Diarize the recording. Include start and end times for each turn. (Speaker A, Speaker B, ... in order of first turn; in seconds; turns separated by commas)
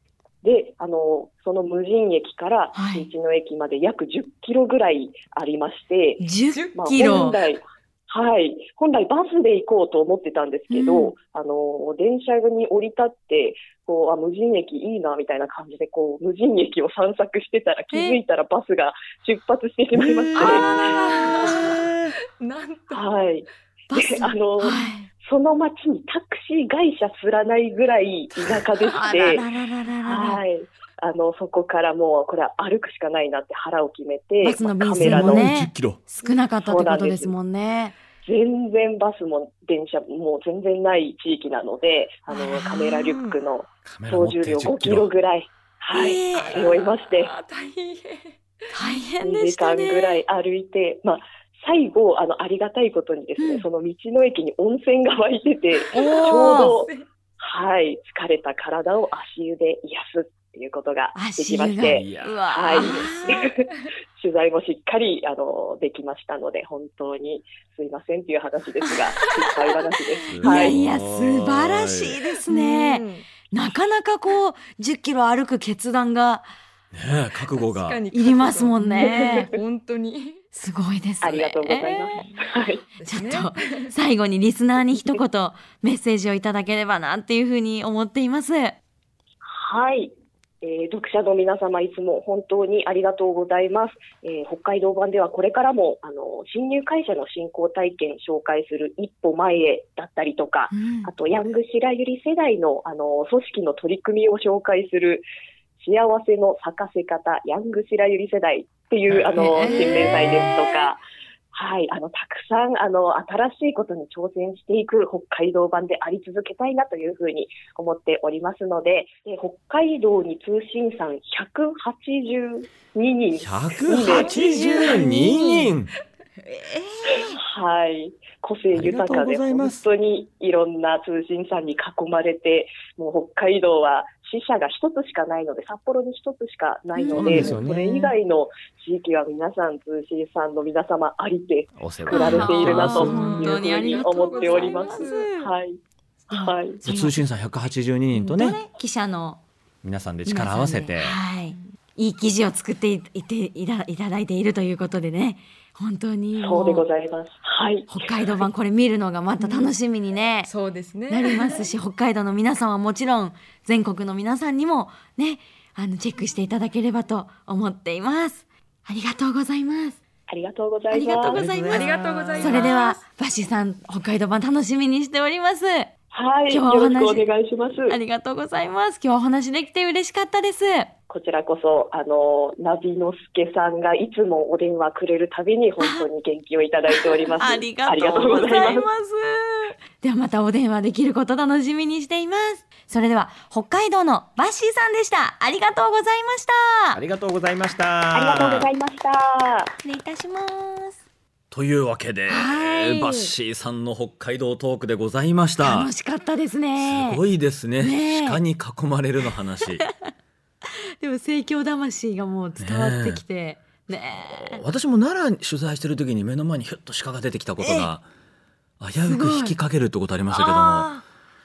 Speaker A: 0.4-6.2, Speaker B: 2.7-3.1, Speaker B: 6.2-7.4, Speaker C: 6.5-7.3, Speaker A: 6.7-20.7, Speaker B: 10.7-11.1, Speaker B: 17.9-18.2, Speaker D: 19.9-20.9, Speaker C: 20.4-23.1, Speaker B: 20.4-21.6, Speaker D: 21.4-22.1, Speaker A: 22.9-29.4, Speaker B: 23.9-25.1, Speaker C: 24.7-25.0, Speaker B: 28.9-30.4, Speaker A: 30.0-35.5, Speaker B: 34.4-37.9, Speaker D: 35.0-36.0, Speaker A: 36.6-37.3, Speaker A: 38.2-47.3, Speaker B: 42.3-43.0, Speaker C: 42.6-43.4, Speaker D: 43.9-45.1, Speaker B: 45.9-46.6, Speaker C: 46.3-48.7, Speaker B: 48.7-50.2, Speaker A: 49.2-70.8, Speaker B: 53.4-53.6, Speaker C: 55.8-57.0, Speaker B: 55.9-56.8, Speaker B: 61.1-63.5, Speaker D: 61.9-62.4, Speaker B: 69.2-69.5, Speaker D: 70.3-72.2, Speaker B: 70.4-76.5, Speaker C: 72.5-73.3, Speaker D: 76.9-78.0, Speaker C: 77.5-80.4, Speaker B: 78.1-79.5, Speaker B: 80.5-82.2, Speaker A: 81.2-82.8, Speaker C: 82.2-83.9, Speaker B: 83.0-88.8, Speaker A: 89.4-105.2, Speaker B: 100.7-101.1, Speaker A: 105.8-111.0, Speaker D: 109.1-109.4, Speaker B: 109.3-110.7, Speaker C: 109.7-110.0, Speaker A: 111.5-125.0, Speaker D: 123.4-125.9, Speaker C: 124.1-125.7, Speaker B: 124.9-125.7, Speaker B: 126.5-127.4, Speaker A: 127.1-146.8, Speaker D: 128.7-129.8, Speaker B: 136.9-137.6, Speaker D: 137.1-138.0, Speaker D: 141.8-143.4, Speaker B: 142.1-145.5, Speaker C: 142.1-145.3, Speaker B: 146.3-147.1, Speaker D: 146.8-148.6, Speaker B: 148.1-149.4, Speaker D: 149.8-151.2, Speaker B: 150.2-156.9, Speaker A: 156.4-158.4, Speaker B: 157.9-160.5, Speaker C: 159.4-159.7, Speaker C: 160.5-161.7, Speaker B: 161.1-170.0, Speaker A: 170.3-171.4, Speaker B: 170.9-175.9, Speaker D: 171.3-172.7, Speaker C: 171.4-173.0, Speaker A: 176.1-178.0, Speaker B: 176.5-177.3, Speaker B: 177.8-180.9, Speaker A: 181.1-188.9, Speaker B: 185.8-186.1, Speaker B: 186.9-197.0, Speaker D: 196.9-198.7, Speaker A: 198.1-199.7, Speaker B: 199.8-201.0, Speaker D: 201.5-205.9, Speaker B: 202.3-203.3, Speaker B: 205.6-207.2, Speaker D: 206.8-209.8, Speaker B: 207.8-208.4, Speaker B: 211.0-214.6, Speaker D: 212.6-213.2, Speaker D: 214.3-218.0, Speaker B: 217.6-217.9, Speaker D: 218.8-220.9, Speaker B: 219.1-219.6, Speaker B: 220.3-221.0